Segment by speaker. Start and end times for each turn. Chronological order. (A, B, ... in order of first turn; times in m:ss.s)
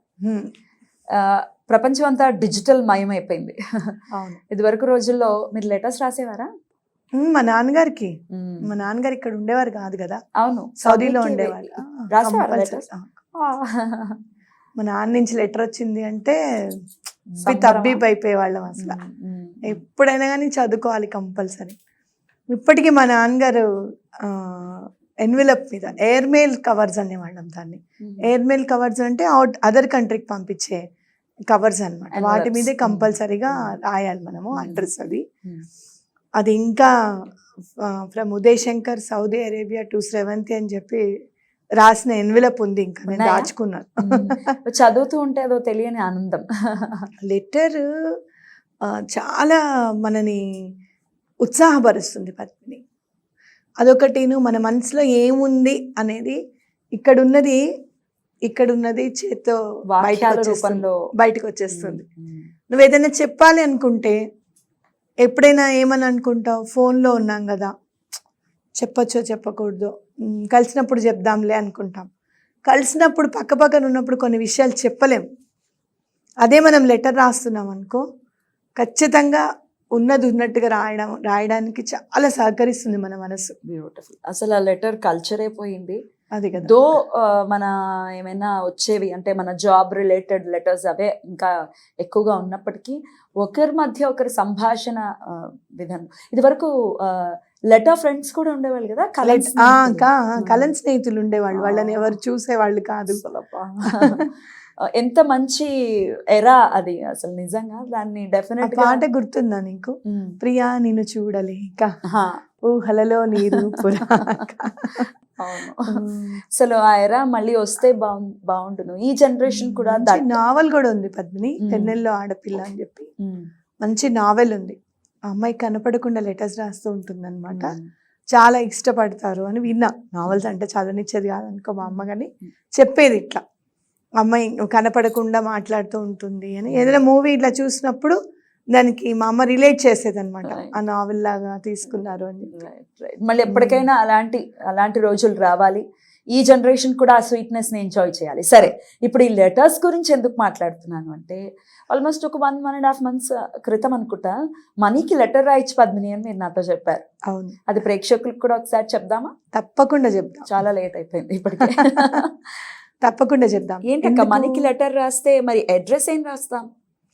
0:00.2-0:00.5 A
0:01.2-0:03.6 B
0:04.1-0:04.4 A
0:04.5-0:06.5 B
0:07.2-0:08.1 A
0:08.3-0:08.6 B
0:08.7-0:10.2 A
0:10.4-0:12.8 B
0:10.8-0:13.2 A
0:13.4-0:14.2 B
0:14.8-0:16.4 A
0:17.4-0:18.0 B
0:17.4-0:19.0 A
0:18.8-0:19.8 B
0:19.7-0:21.8 A
0:22.5-0:23.7 A
0:24.2-0:30.8 A
0:28.0-0:28.3 B
0:31.5-0:35.2 A
0:32.1-0:33.7 B
0:34.5-0:34.8 B
0:36.4-0:36.9 A
0:37.8-0:41.1 A
0:41.8-0:44.4 A
0:43.1-0:43.5 B
0:44.1-0:47.1 B
0:47.3-0:47.8 A
0:48.9-0:50.4 A
0:51.4-0:52.8 A
0:53.8-0:56.4 A
0:57.0-0:57.6 A
0:58.5-1:02.0 A
0:59.9-1:01.0 B
1:01.7-1:02.5 B
1:02.7-1:04.2 A
1:05.2-1:07.7 A
1:08.8-1:09.9 A
1:10.5-1:12.1 A
1:12.7-1:15.3 A
1:16.4-1:18.0 A
1:18.8-1:19.4 A
1:20.0-1:23.5 A
1:23.7-1:26.0 B
1:26.4-1:26.8 A
1:26.6-1:31.5 B
1:32.0-1:40.7 B
1:39.2-1:43.2 A
1:41.6-1:42.2 B
1:43.1-1:44.3 B
1:45.0-1:45.7 B
1:46.4-1:49.0 B
1:48.6-1:51.9 A
1:52.1-1:52.4 B
1:52.7-1:55.0 A
1:53.5-1:54.2 B
1:55.0-1:56.0 B
1:55.8-1:56.4 A
1:56.6-2:00.4 B
1:59.5-2:03.1 A
2:01.6-2:02.0 B
2:03.8-2:04.8 A
2:05.3-2:07.7 A
2:07.5-2:07.9 B
2:08.3-2:13.4 A
2:14.2-2:18.2 A
2:16.7-2:17.0 B
2:18.7-2:22.6 A
2:22.5-2:25.8 B
2:23.5-2:23.8 A
2:26.3-2:37.0 B
2:37.3-2:37.6 A
2:37.7-2:39.3 B
2:39.5-2:40.5 A
2:40.5-2:42.5 B
2:41.7-2:42.2 A
2:43.0-2:44.7 A
2:43.9-2:46.7 B